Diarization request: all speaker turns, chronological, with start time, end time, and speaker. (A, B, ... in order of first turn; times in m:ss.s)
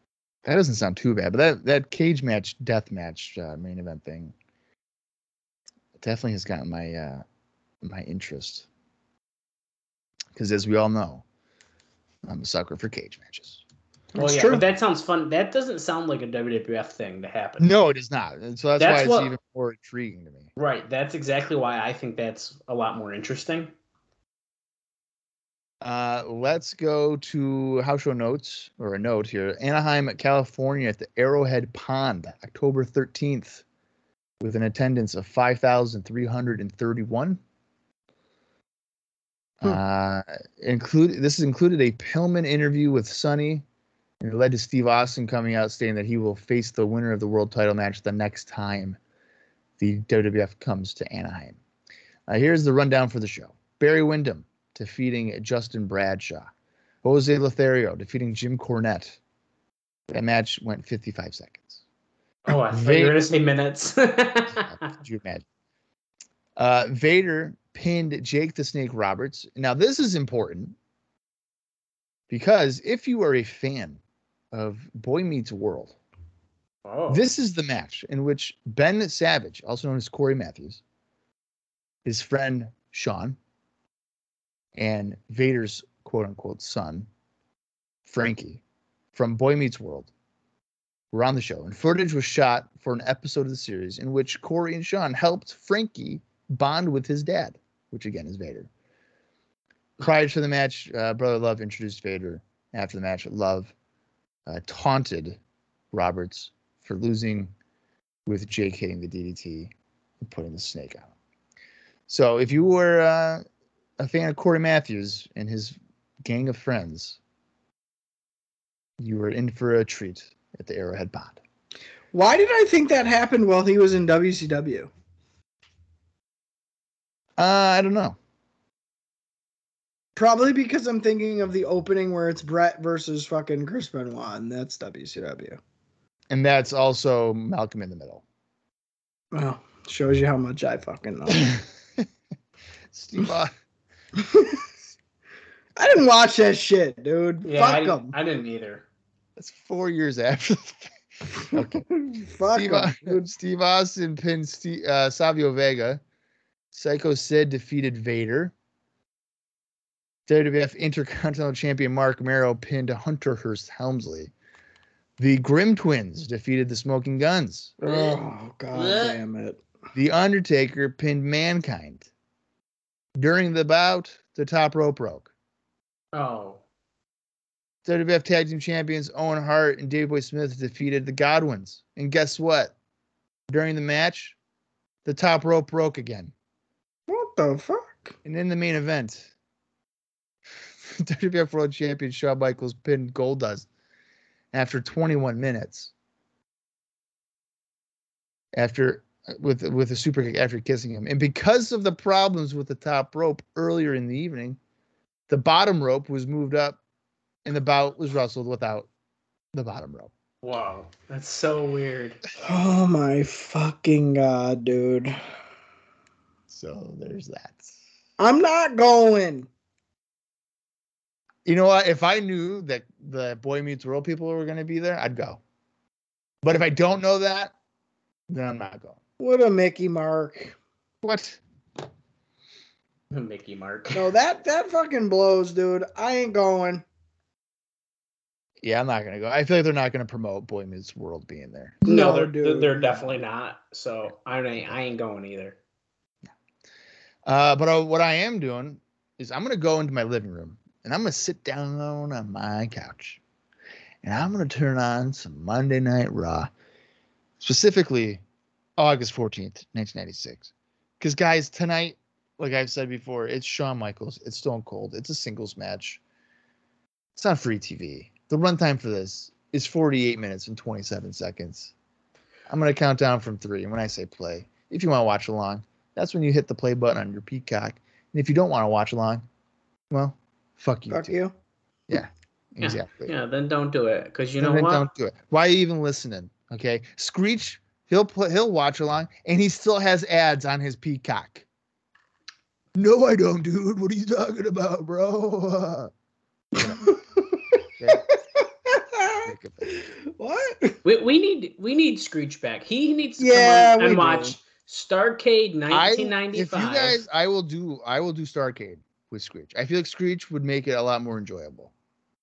0:00.4-0:04.3 A
0:06.0-0:07.2 A
0:07.8-0:08.7 A
0:10.4-0:11.2 A
0:12.2-0:13.6 A
0:14.2-0:14.6 B
0:14.2-0:17.7 C
0:17.6-0:20.5 A
0:18.8-0:19.3 C
0:20.6-0:23.7 C
0:25.8-0:33.6 A
0:34.4-0:37.4 A
0:39.6-0:43.6 A
0:44.2-0:49.0 A
0:49.8-0:51.6 A
0:52.3-0:56.5 A
0:57.0-0:59.2 A
1:00.1-1:01.8 A
1:02.5-1:04.9 C
1:02.5-1:03.2 A
1:04.7-1:05.4 A
1:06.6-1:10.8 A
1:12.3-1:14.0 A
1:14.5-1:16.0 A
1:16.8-1:17.2 C
1:17.1-1:20.8 A
1:22.0-1:23.4 A
1:24.8-1:27.1 A
1:28.1-1:28.6 A
1:29.1-1:30.1 A
1:31.1-1:38.7 A
1:40.0-1:43.7 A
1:44.5-1:45.4 A
1:45.9-1:47.5 A
1:48.3-1:51.1 A
1:52.1-1:53.4 A
1:54.0-1:57.2 A
1:59.0-2:01.4 A
2:02.1-2:04.9 B
2:07.4-2:08.2 A
2:10.2-2:15.6 B
2:16.3-2:18.2 A
2:19.3-2:21.5 B
2:21.5-2:22.1 A
2:22.9-2:23.5 A
2:24.2-2:24.6 B
2:25.8-2:28.1 B
2:27.4-2:28.8 C
2:29.4-2:30.9 A
2:31.5-2:31.9 A
2:31.5-2:33.3 B
2:32.5-2:36.0 A
2:36.7-2:38.5 A
2:40.3-2:44.3 A
2:45.2-2:47.7 A
2:47.8-2:49.6 B
2:47.8-2:48.2 C
2:48.7-2:49.2 C
2:50.0-2:52.1 A
2:53.2-2:55.3 A
2:56.1-2:56.6 C
2:57.8-3:02.7 A
3:03.5-3:04.4 A
3:05.0-3:06.3 A
3:07.1-3:08.2 B
3:08.2-3:09.3 A
3:10.7-3:13.7 A
3:14.5-3:15.9 A
3:18.5-3:24.6 A
3:25.3-3:26.8 A
3:27.4-3:28.9 A
3:29.5-3:30.1 A
3:30.4-3:32.2 C
3:32.4-3:35.2 B
3:36.5-3:37.8 A
3:38.2-3:39.5 B
3:41.4-3:45.4 A
3:46.4-3:47.5 A
3:48.3-3:49.0 A
3:49.2-3:50.6 B
3:51.0-3:51.4 A
3:53.1-3:54.1 C
3:53.9-3:56.8 B
3:58.6-4:01.8 A
4:01.8-4:03.2 B
4:01.8-4:05.6 C
4:07.2-4:13.2 A
4:14.0-4:16.5 A
4:17.4-4:18.2 A
4:18.8-4:26.0 A
4:27.2-4:31.7 A
4:32.5-4:39.2 A
4:39.9-4:41.2 A
4:40.9-4:41.3 B
4:41.9-4:43.1 A
4:42.6-4:44.9 C
4:44.4-4:51.5 A
4:52.8-4:55.9 A
4:56.5-4:56.8 A
4:56.8-5:00.8 B
4:57.8-4:58.0 A
4:59.2-4:59.7 A
5:00.8-5:07.0 C
5:03.2-5:04.4 B
5:05.7-5:11.7 A